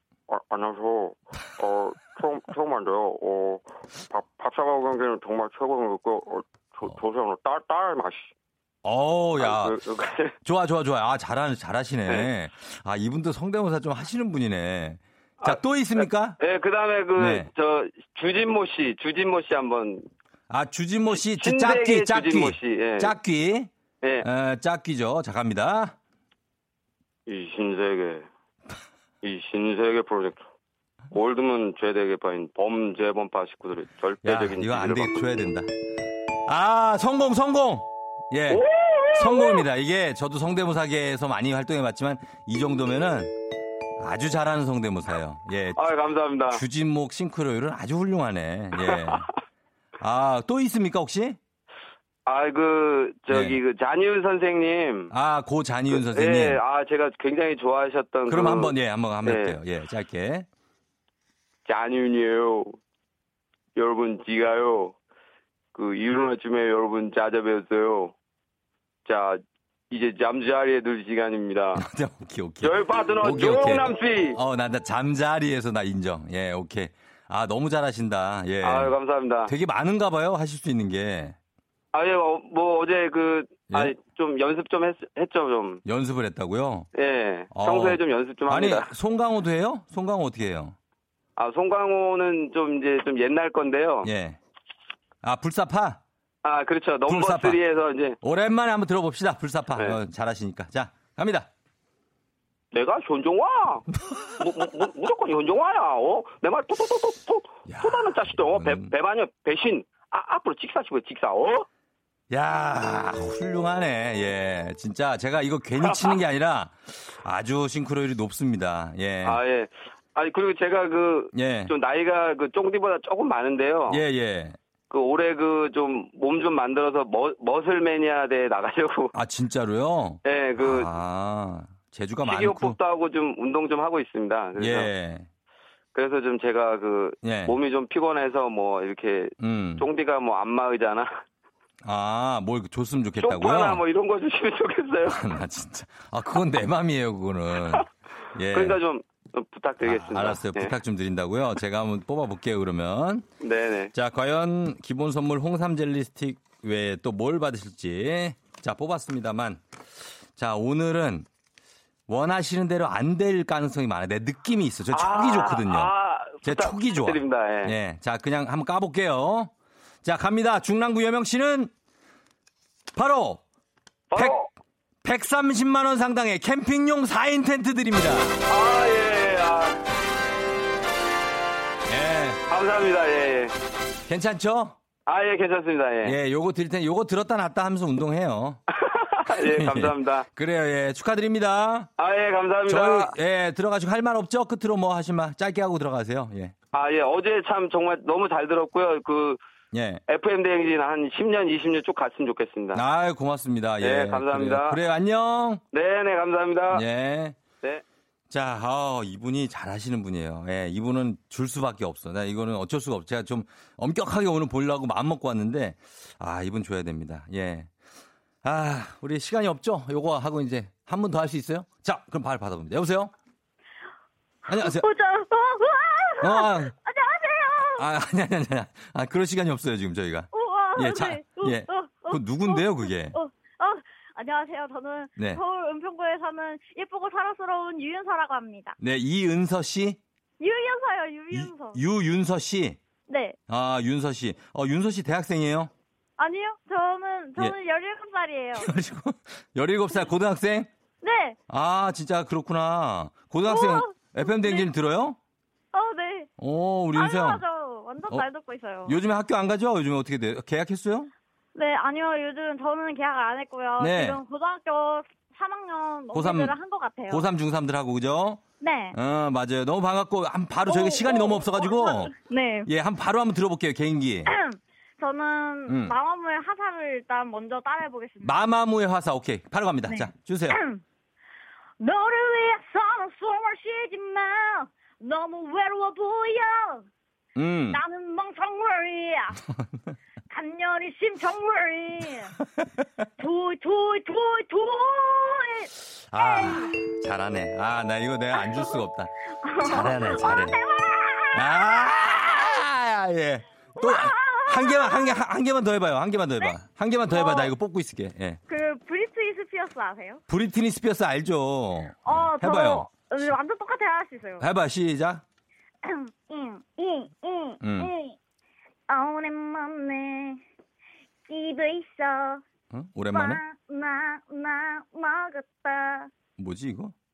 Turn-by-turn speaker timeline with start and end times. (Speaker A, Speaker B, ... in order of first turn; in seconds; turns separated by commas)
Speaker A: 0.3-8.3, Speaker B: 8.8-9.8, Speaker A: 9.4-10.3, Speaker B: 10.4-16.4, Speaker A: 15.4-20.1, Speaker B: 17.1-17.5, Speaker B: 20.5-23.7, Speaker A: 21.3-23.1, Speaker B: 24.2-25.9, Speaker A: 27.3-28.3, Speaker A: 29.2-30.4, Speaker A: 31.1-35.2, Speaker B: 34.2-35.7, Speaker B: 36.5-38.6, Speaker A: 38.5-39.6, Speaker B: 39.1-43.3, Speaker B: 44.0-45.8, Speaker A: 45.8-46.6, Speaker B: 46.5-49.3, Speaker A: 48.8-49.2, Speaker B: 50.0-51.4, Speaker A: 52.2-55.1, Speaker B: 53.3-53.6, Speaker B: 55.1-56.6, Speaker A: 55.9-59.6, Speaker B: 58.3-60.5, Speaker A: 61.6-62.8, Speaker A: 63.8-64.9, Speaker A: 65.7-68.1, Speaker A: 69.0-71.8, Speaker B: 71.7-81.4, Speaker A: 72.6-74.4, Speaker A: 78.6-79.5, Speaker A: 81.9-85.8, Speaker B: 85.8-86.9, Speaker A: 87.0-88.9, Speaker B: 87.5-90.8, Speaker A: 91.4-94.1, Speaker B: 94.0-94.4, Speaker B: 95.2-96.0, Speaker A: 96.4-98.2, Speaker B: 97.0-97.6, Speaker B: 98.2-101.5, Speaker A: 102.7-103.9, Speaker A: 104.4-111.7, Speaker B: 107.7-108.9, Speaker B: 112.3-119.4, Speaker A: 115.9-116.2, Speaker A: 119.2-124.0, Speaker B: 121.3-121.7, Speaker B: 123.9-124.6, Speaker A: 124.9-129.1, Speaker B: 129.1-132.8, Speaker A: 130.2-130.9, Speaker A: 132.2-134.9, Speaker B: 134.6-135.3, Speaker A: 135.9-141.1, Speaker B: 137.2-137.5, Speaker B: 139.4-139.8, Speaker B: 141.8-143.8, Speaker A: 143.2-145.3, Speaker B: 145.1-147.8, Speaker B: 148.3-148.8, Speaker A: 148.5-150.7, Speaker B: 149.8-153.2, Speaker A: 153.4-153.9, Speaker B: 153.9-159.6, Speaker B: 160.3-161.3, Speaker B: 162.1-165.9, Speaker A: 164.9-167.7, Speaker B: 166.4-169.5, Speaker B: 170.0-171.7, Speaker B: 172.9-173.4, Speaker A: 174.1-174.5, Speaker B: 175.0-178.4, Speaker A: 178.5-179.8, Speaker B: 181.9-182.4, Speaker A: 182.5-183.5, Speaker B: 184.1-184.8, Speaker A: 185.1-186.2, Speaker B: 186.0-188.6, Speaker A: 188.8-190.3, Speaker B: 189.3-191.9, Speaker A: 192.0-193.1, Speaker B: 192.7-196.5, Speaker A: 196.7-199.4, Speaker B: 199.7-200.0, Speaker A: 200.1-202.8, Speaker B: 202.7-205.6, Speaker A: 203.8-204.8, Speaker A: 205.7-206.8, Speaker B: 206.7-207.4, Speaker B: 208.3-217.7, Speaker B: 218.4-223.1, Speaker B: 224.5-224.8, Speaker C: 224.6-227.8, Speaker B: 226.2-226.7, Speaker B: 227.6-233.2, Speaker C: 230.3-238.7, Speaker B: 235.2-235.4, Speaker B: 238.8-240.0, Speaker C: 240.4-241.8, Speaker B: 241.3-242.8, Speaker C: 243.1-243.3, Speaker B: 243.5-245.7, Speaker C: 246.2-248.7, Speaker B: 248.5-250.7, Speaker C: 251.0-251.3, Speaker B: 251.5-255.2, Speaker C: 253.5-254.7, Speaker C: 255.7-256.3, Speaker B: 256.4-257.4, Speaker C: 256.9-258.9, Speaker B: 258.9-261.1, Speaker C: 261.6-267.2, Speaker B: 263.8-264.2, Speaker B: 266.1-266.6, Speaker B: 267.1-268.4, Speaker C: 268.6-268.9, Speaker B: 268.9-272.1, Speaker C: 270.7-272.6, Speaker B: 272.6-274.3, Speaker C: 274.3-278.3, Speaker B: 275.7-275.9, Speaker B: 278.2-280.6, Speaker C: 279.9-280.8, Speaker C: 281.8-286.8, Speaker B: 287.4-287.8, Speaker C: 287.7-289.3, Speaker C: 290.3-292.3, Speaker C: 293.2-295.7, Speaker B: 296.1-300.6, Speaker C: 296.2-296.6, Speaker C: 298.4-298.7, Speaker C: 299.5-302.0, Speaker B: 301.3-308.4, Speaker C: 303.8-305.2, Speaker C: 307.1-307.5, Speaker C: 308.5-310.2, Speaker B: 310.3-312.9, Speaker C: 312.1-314.4, Speaker B: 314.4-315.2, Speaker C: 315.9-318.1, Speaker B: 317.6-317.9, Speaker C: 318.9-320.4, Speaker C: 321.3-322.4, Speaker B: 322.7-323.4, Speaker C: 323.1-326.1, Speaker B: 326.4-326.9